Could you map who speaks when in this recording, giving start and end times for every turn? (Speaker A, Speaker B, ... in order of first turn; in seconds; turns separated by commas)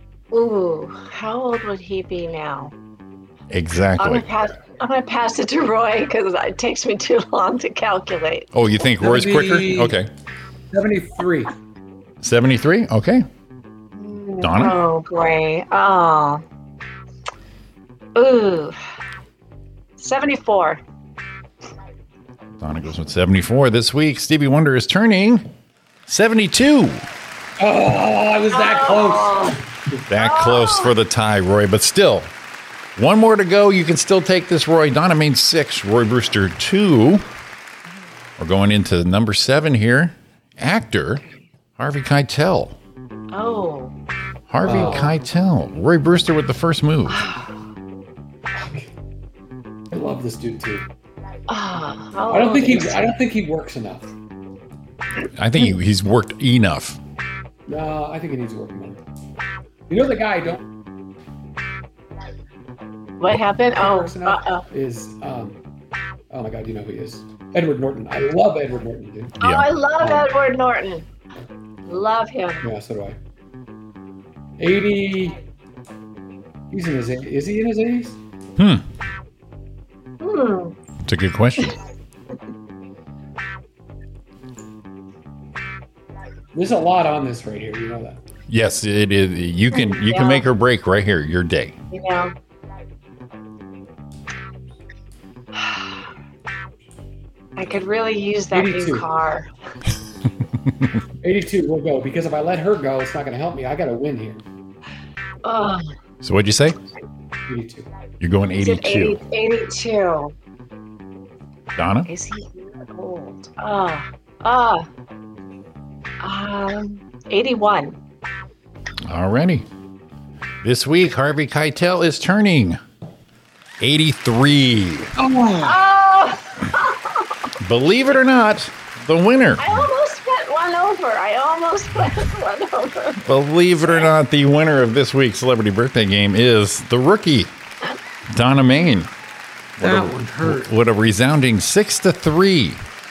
Speaker A: 0.3-2.7, Speaker B: 3.5-4.3, Speaker A: 4.0-8.5, Speaker B: 8.5-10.1, Speaker C: 9.0-9.9, Speaker C: 10.7-11.5, Speaker B: 12.2-13.2, Speaker A: 13.9-16.4, Speaker B: 14.4-14.8, Speaker A: 18.1-18.8, Speaker A: 20.0-20.8, Speaker B: 22.6-25.5, Speaker B: 26.1-27.1, Speaker C: 27.6-30.0, Speaker A: 28.5-29.6, Speaker B: 30.1-32.3, Speaker A: 30.1-30.9, Speaker B: 33.0-37.2, Speaker B: 38.4-41.2, Speaker A: 41.1-41.5, Speaker B: 41.8-42.8, Speaker A: 43.3-43.9, Speaker B: 44.5-47.3, Speaker C: 44.6-45.1, Speaker A: 44.7-45.1, Speaker A: 47.1-47.6, Speaker C: 48.5-48.9, Speaker C: 49.9-50.9, Speaker A: 51.5-53.0, Speaker C: 52.3-54.1, Speaker B: 55.4-57.0, Speaker C: 57.7-59.0, Speaker C: 59.9-60.6, Speaker A: 63.2-64.6, Speaker C: 63.8-65.6, Speaker C: 66.3-69.4, Speaker B: 69.4-69.7, Speaker A: 69.4-71.0, Speaker C: 70.0-70.3, Speaker A: 71.9-72.6, Speaker C: 72.6-73.2, Speaker C: 74.6-75.4, Speaker C: 76.7-78.2, Speaker B: 78.6-78.8, Speaker A: 80.2-80.7, Speaker B: 81.0-81.8, Speaker C: 86.5-88.2, Speaker B: 88.5-91.8, Speaker A: 89.7-90.5, Speaker A: 91.9-92.3, Speaker A: 95.5-96.0, Speaker A: 97.5-99.5, Speaker C: 98.5-99.1, Speaker C: 101.2-104.4, Speaker A: 105.4-105.9, Speaker B: 106.2-106.8, Speaker C: 107.5-107.9, Speaker B: 108.2-109.2, Speaker A: 108.5-110.3, Speaker B: 111.8-112.1, Speaker A: 112.1-114.9, Speaker A: 116.2-118.0, Speaker B: 119.0-119.7, Speaker B: 120.6-122.8, Speaker B: 123.8-125.1, Speaker C: 125.2-125.8, Speaker A: 125.6-127.3, Speaker B: 127.6-129.9, Speaker A: 129.6-133.2, Speaker B: 133.2-137.5, Speaker B: 138.3-139.1, Speaker B: 139.8-142.8, Speaker C: 139.8-140.7